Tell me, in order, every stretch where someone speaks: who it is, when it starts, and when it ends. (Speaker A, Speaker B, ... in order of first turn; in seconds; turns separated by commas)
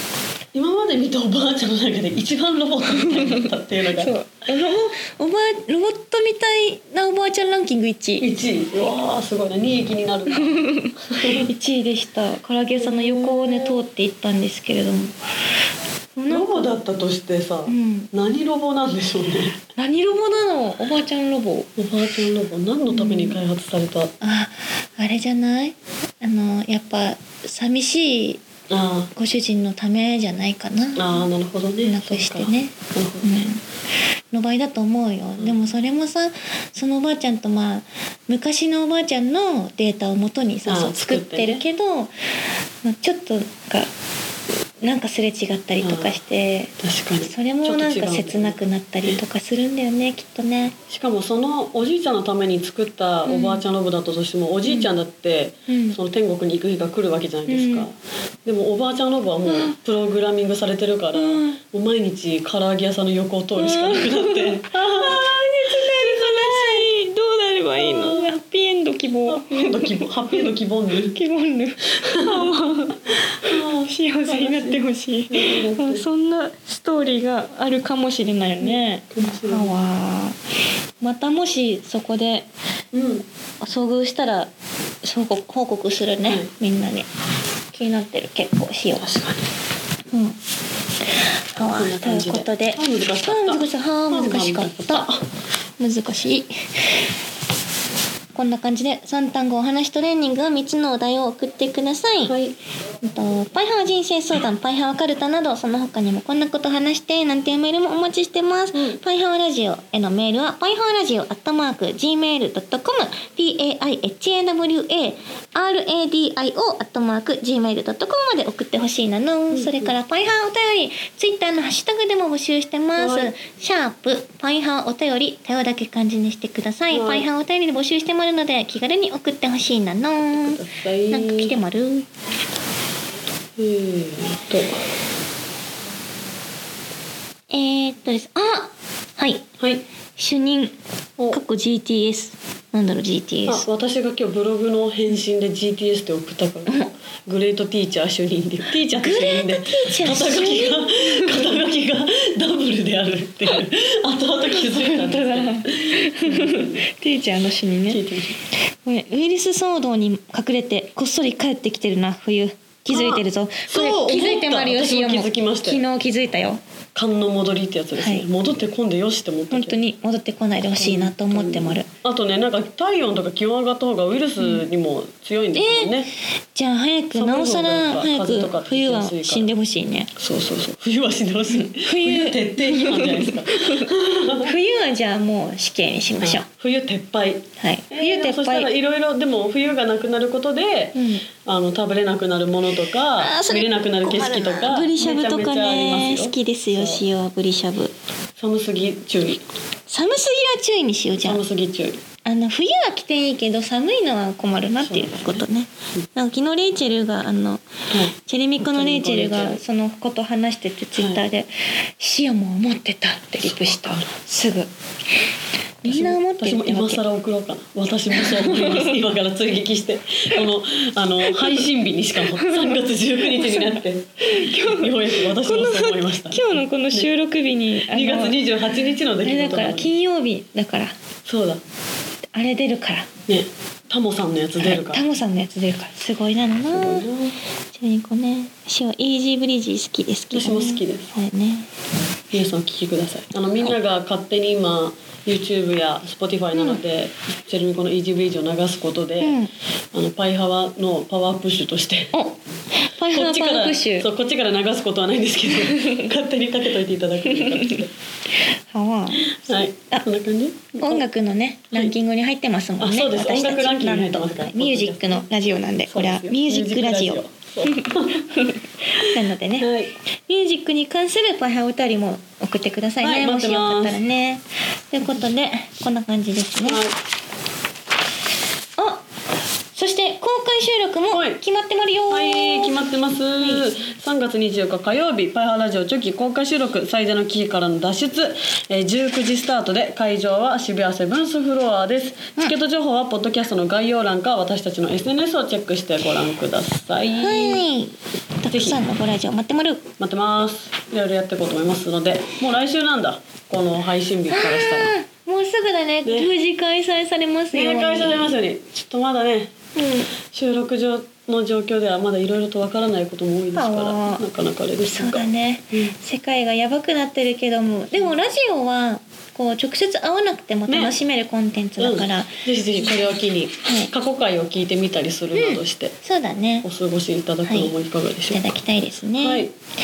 Speaker A: 0.5-4.1, Speaker B: 3.9-8.3, Speaker A: 8.2-11.5, Speaker B: 10.5-15.2, Speaker A: 12.8-13.8, Speaker B: 16.2-16.7, Speaker A: 16.3-19.6, Speaker B: 17.7-18.1, Speaker B: 19.8-21.7, Speaker A: 21.8-24.1, Speaker B: 22.9-23.4, Speaker B: 24.2-28.4, Speaker A: 28.7-29.1, Speaker B: 29.1-31.2, Speaker A: 31.0-33.3, Speaker B: 31.9-33.6, Speaker B: 34.3-42.1, Speaker A: 40.7-41.6, Speaker B: 42.8-43.9, Speaker B: 44.8-50.8, Speaker A: 45.8-46.2, Speaker A: 46.8-49.2, Speaker A: 50.9-66.9, Speaker B: 53.3-53.6, Speaker B: 55.7-56.0, Speaker B: 57.5-57.9, Speaker B: 59.5-59.8, Speaker B: 61.1-61.6, Speaker B: 63.6-70.5, Speaker A: 67.8-68.3, Speaker A: 69.3-71.2, Speaker B: 71.1-73.2, Speaker A: 73.5-76.0, Speaker B: 73.8-80.4, Speaker A: 78.6-79.8, Speaker B: 81.0-82.5, Speaker A: 82.9-83.2, Speaker B: 83.6-84.5, Speaker B: 85.0-87.1, Speaker A: 86.2-86.5, Speaker B: 87.7-89.1, Speaker A: 89.0-89.5, Speaker B: 90.1-90.4, Speaker B: 91.5-95.1, Speaker A: 91.6-95.2, Speaker B: 95.8-96.5, Speaker B: 98.3-102.3, Speaker A: 102.2-102.6, Speaker B: 103.0-130.6, Speaker A: 108.7-109.0, Speaker A: 119.5-120.0, Speaker A: 123.0-123.3, Speaker A: 126.9-127.3, Speaker A: 130.2-131.6, Speaker B: 131.1-132.1, Speaker A: 133.6-134.8, Speaker B: 137.5-139.4, Speaker A: 139.6-139.8, Speaker B: 140.2-140.8, Speaker B: 141.3-143.7, Speaker A: 143.5-156.8, Speaker B: 149.0-151.6, Speaker B: 154.5-158.0, Speaker A: 157.9-158.4, Speaker B: 158.8-166.6, Speaker A: 162.9-165.8, Speaker A: 166.9-169.8, Speaker B: 168.0-168.3, Speaker B: 169.5-171.9, Speaker A: 170.8-176.1, Speaker B: 175.5-175.9, Speaker B: 176.5-180.1, Speaker A: 177.1-179.5, Speaker A: 180.2-184.5, Speaker B: 181.5-186.4, Speaker A: 186.2-197.0, Speaker B: 187.6-188.7, Speaker B: 190.9-191.3, Speaker B: 193.2-197.9, Speaker A: 198.4-199.4, Speaker B: 199.9-201.4, Speaker A: 201.2-202.0, Speaker B: 202.2-207.6, Speaker A: 204.8-205.5, Speaker A: 207.9-209.6, Speaker B: 208.2-214.7, Speaker A: 211.0-211.2, Speaker A: 213.4-214.1, Speaker B: 215.8-217.0, Speaker A: 215.8-227.1, Speaker B: 218.2-218.9, Speaker B: 222.4-228.4, Speaker A: 227.9-229.9, Speaker B: 229.2-230.9, Speaker A: 231.3-231.6, Speaker B: 232.3-233.1, Speaker A: 233.3-235.0, Speaker B: 234.6-237.1, Speaker A: 236.7-237.4, Speaker B: 237.7-241.7, Speaker A: 240.3-241.1, Speaker A: 242.3-249.4, Speaker B: 246.5-246.8, Speaker B: 249.2-249.5, Speaker A: 249.9-252.1, Speaker B: 252.1-254.1, Speaker A: 253.1-257.9, Speaker B: 255.8-256.1, Speaker B: 258.7-260.1, Speaker A: 259.3-261.0, Speaker B: 260.8-267.2, Speaker A: 262.8-265.3, Speaker A: 265.9-268.3, Speaker B: 269.0-276.8, Speaker A: 269.6-269.9, Speaker A: 273.0-274.0, Speaker A: 276.6-277.0, Speaker B: 278.8-279.0, Speaker B: 279.7-282.8, Speaker A: 281.1-281.4, Speaker A: 282.1-297.6, Speaker B: 283.4-283.7, Speaker B: 297.1-299.8, Speaker A: 298.5-298.8, Speaker A: 300.0-304.9, Speaker B: 304.3-308.3, Speaker A: 306.1-306.3, Speaker A: 307.5-309.5, Speaker B: 309.8-310.1, Speaker A: 310.3-315.9, Speaker B: 313.5-314.2, Speaker B: 314.9-323.1, Speaker A: 320.7-321.0, Speaker A: 321.8-325.9, Speaker B: 323.6-323.9, Speaker B: 325.3-326.7, Speaker A: 326.6-328.5, Speaker B: 327.4-327.7, Speaker B: 328.3-329.5, Speaker A: 329.2-329.5